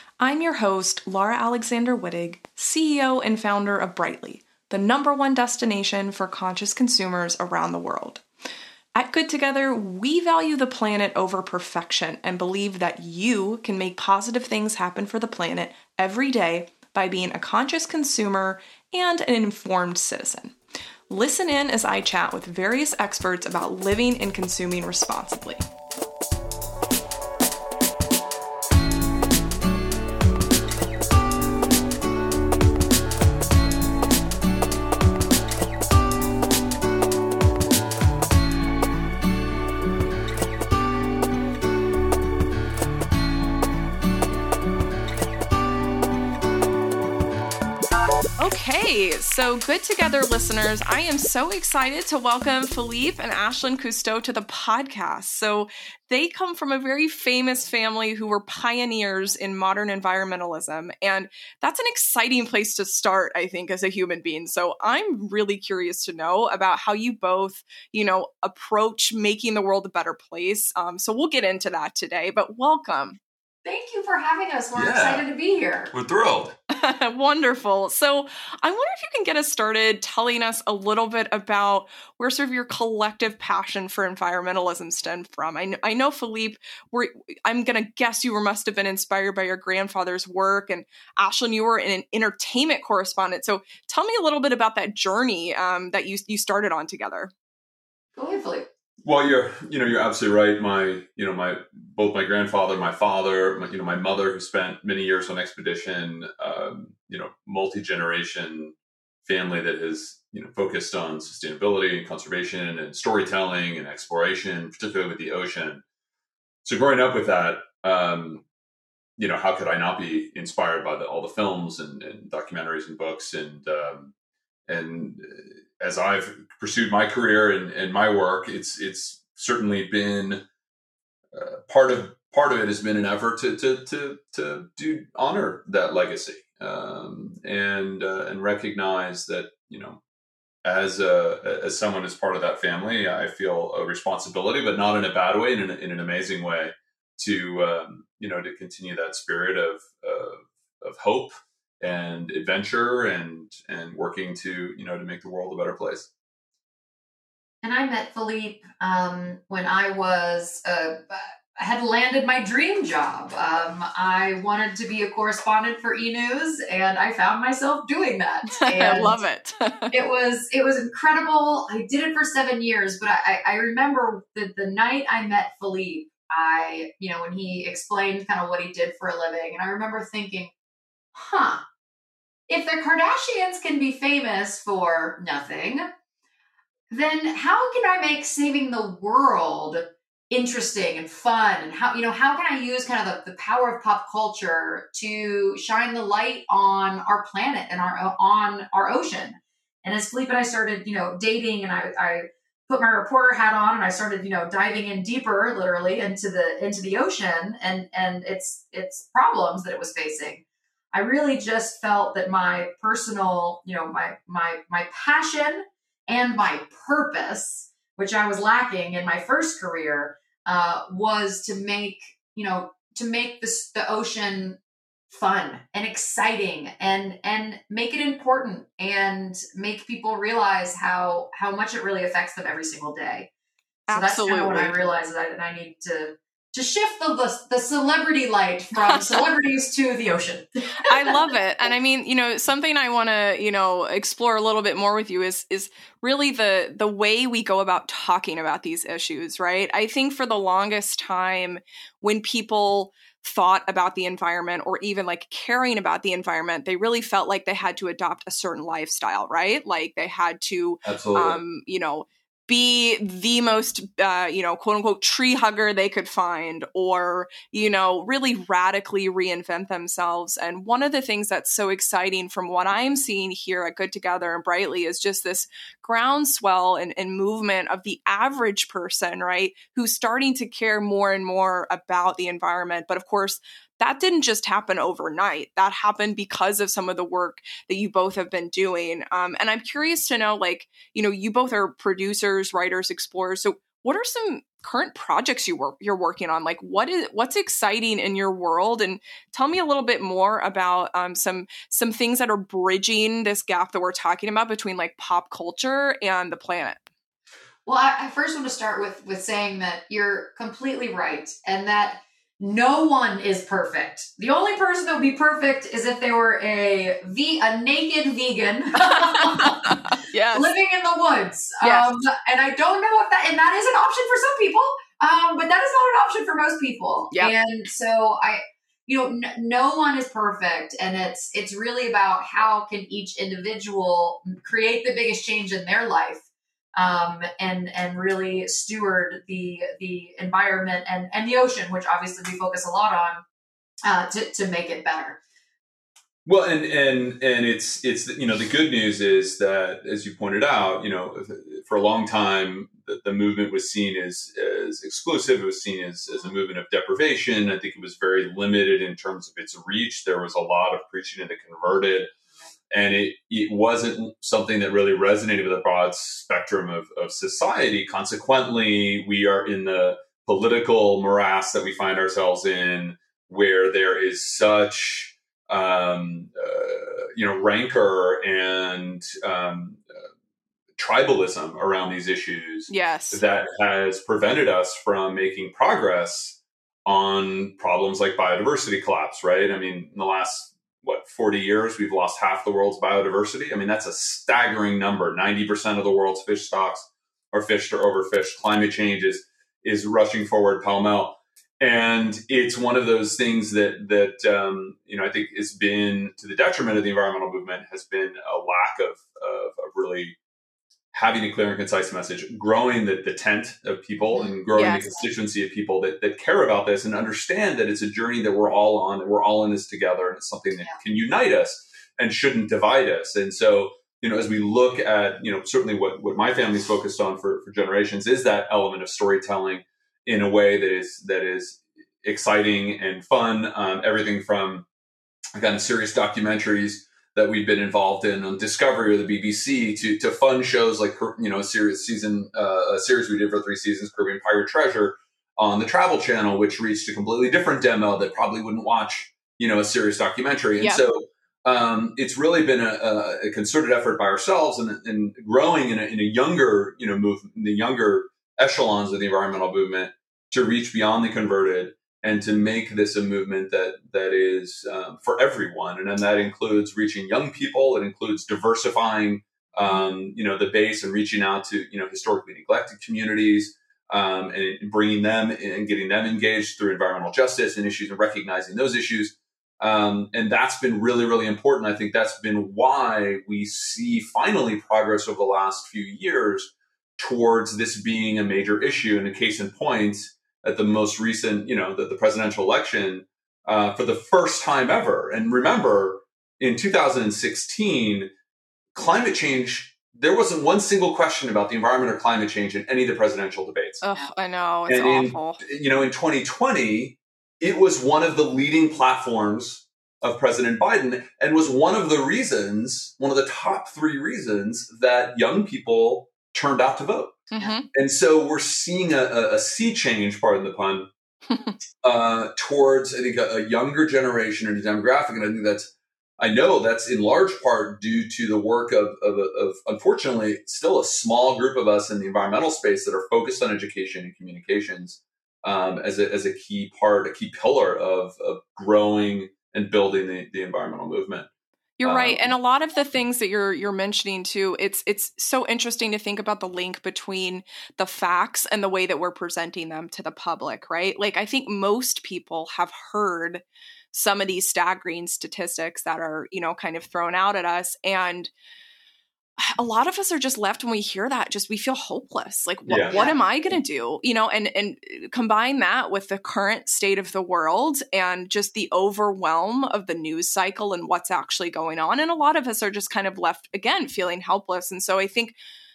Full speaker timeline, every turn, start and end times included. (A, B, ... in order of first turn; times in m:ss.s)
0:00.2-0:08.2 A
0:08.9-0:20.5 A
0:21.1-0:25.6 A
0:48.4-1:13.2 A
1:13.6-1:15.9 B
1:14.7-1:15.2 C
1:15.9-1:16.5 C
1:16.7-1:37.3 A
1:38.2-1:38.6 B
1:39.0-1:55.8 C
1:56.6-1:58.4 C
1:59.2-2:04.1 C
2:04.7-2:10.4 C
2:11.3-2:20.0 C
2:20.6-2:36.1 C
2:37.6-2:49.2 B
2:48.5-2:49.9 A
2:49.9-3:00.5 B
3:01.1-3:01.6 B
3:02.5-3:05.9 B
3:06.9-3:44.6 B
3:45.1-3:53.3 B
3:53.9-3:54.8 A
3:53.9-4:01.2 B
3:58.7-3:59.2 A
4:00.8-5:06.8 A
4:20.8-4:21.4 C
5:07.6-5:19.8 B
5:18.8-5:20.5 A
5:20.3-5:36.2 B
5:21.6-5:21.9 A
5:36.8-5:43.2 B
5:43.8-5:45.2 B
5:46.2-6:02.1 C
6:02.7-6:20.1 C
6:20.8-6:50.2 C
6:22.7-6:23.2 A
6:50.9-7:14.6 C
6:54.0-6:54.4 B
6:54.5-6:55.0 A
7:15.4-8:18.1 C
7:30.6-7:30.8 A
8:18.7-8:23.8 C
8:23.8-8:25.4 A
8:24.7-8:40.9 C
8:37.3-8:37.6 A
8:41.3-8:41.6 A
8:41.8-9:01.3 C
9:01.8-9:18.3 A
9:01.8-9:02.3 C
9:19.4-9:35.4 A
9:22.6-9:23.0 C
9:22.9-9:23.2 B